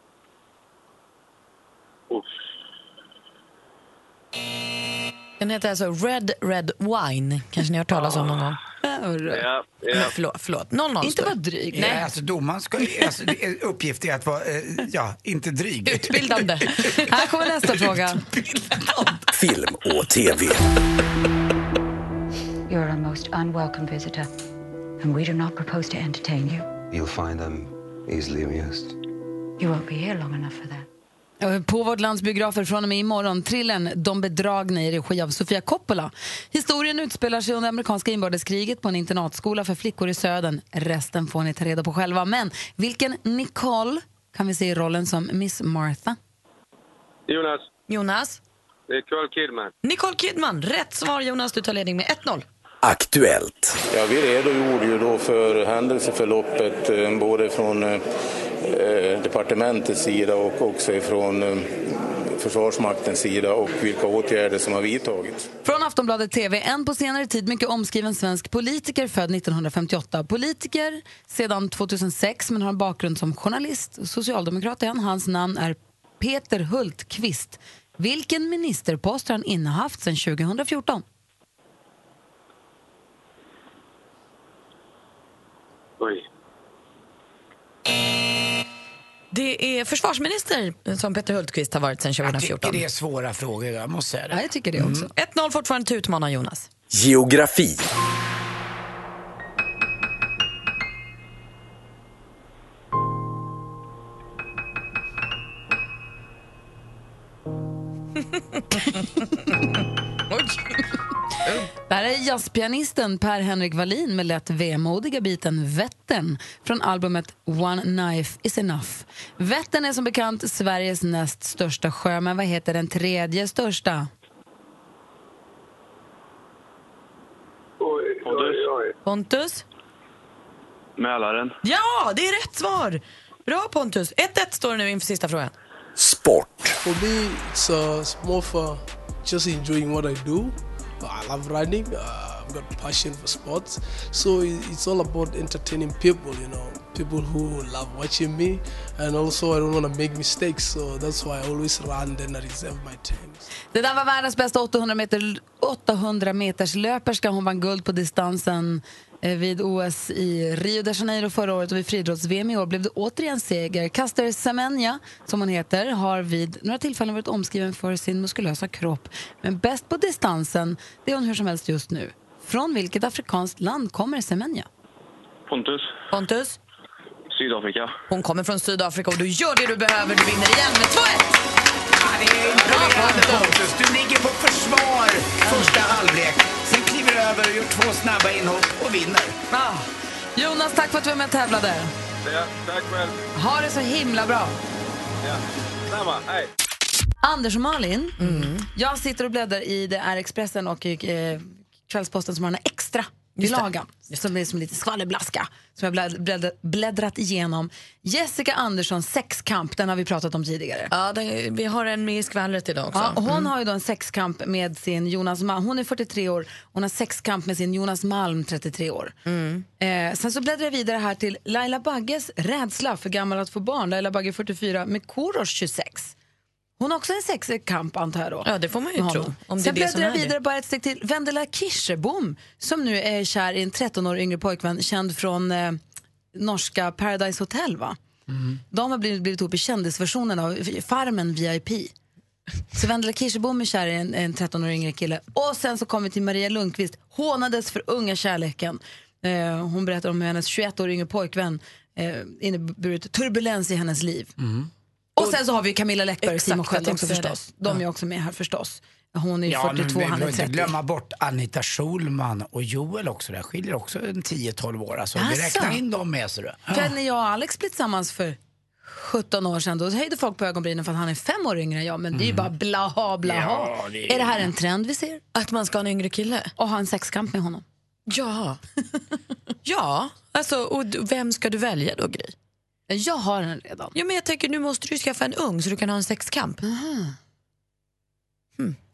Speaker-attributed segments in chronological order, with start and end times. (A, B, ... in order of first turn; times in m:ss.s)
0:05.4-0:08.6 A
0:08.8-0:09.5 B
0:09.3-0:10.0 C
0:09.9-0:12.0 A
0:11.0-0:12.0 B
0:11.7-0:16.9 D
0:15.9-0:17.2 A
0:16.9-0:18.2 B
0:18.7-0:19.1 A
0:19.3-0:20.7 E
0:22.7-0:24.3 F
0:25.0-0:26.7 F
0:26.9-0:29.0 G
0:29.6-0:30.9 F
0:31.4-0:46.2 B
0:47.9-0:48.4 A
0:49.8-0:52.4 A
0:52.8-0:53.8 E
0:53.9-0:58.0 H
0:58.6-1:05.5 H
1:05.6-1:21.0 B
1:29.3-1:32.8 A
1:32.2-1:35.1 D
1:34.3-1:35.1 B
1:35.1-1:36.7 A
1:36.9-1:37.8 E
1:48.7-1:49.6 A
1:50.3-1:50.8 A
1:51.9-2:04.1 B
2:08.2-2:08.7 I
2:09.0-2:09.6 A
2:11.0-2:11.6 I
2:11.6-2:15.5 A
2:16.0-2:16.8 E
2:16.8-2:33.5 J
2:33.7-2:54.7 B
2:55.5-2:55.9 I
2:56.1-2:56.6 A
2:57.3-2:57.9 I
2:58.1-3:01.3 A
3:02.0-3:09.4 D
3:02.7-3:03.6 B
3:09.5-3:11.9 B
3:12.3-3:13.1 C
3:13.4-3:14.6 B
3:15.9-3:16.5 C
3:17.2-3:30.9 B
3:18.2-3:18.6 A
3:23.4-3:23.7 A
3:30.9-3:33.5 A
3:32.9-3:39.1 B
3:39.2-3:39.7 A
3:39.8-3:46.1 B
3:46.8-3:55.8 B
3:48.4-3:50.4 A
3:56.3-3:58.0 B
3:58.3-3:58.6 D
3:58.7-4:01.9 B
4:02.8-4:14.3 B
4:14.4-4:14.7 D
4:15.2-4:20.7 B
4:16.2-4:17.8 A
4:19.5-4:26.9 D
4:25.2-4:25.8 B
4:26.7-4:35.2 B
4:32.1-4:32.5 D
4:33.2-4:34.5 D
4:35.4-4:36.5 A
4:36.6-4:37.6 B
4:38.1-4:38.6 A
4:39.6-4:42.3 A
4:42.9-4:44.0 B
4:44.0-4:46.6 A
4:46.6-4:47.2 B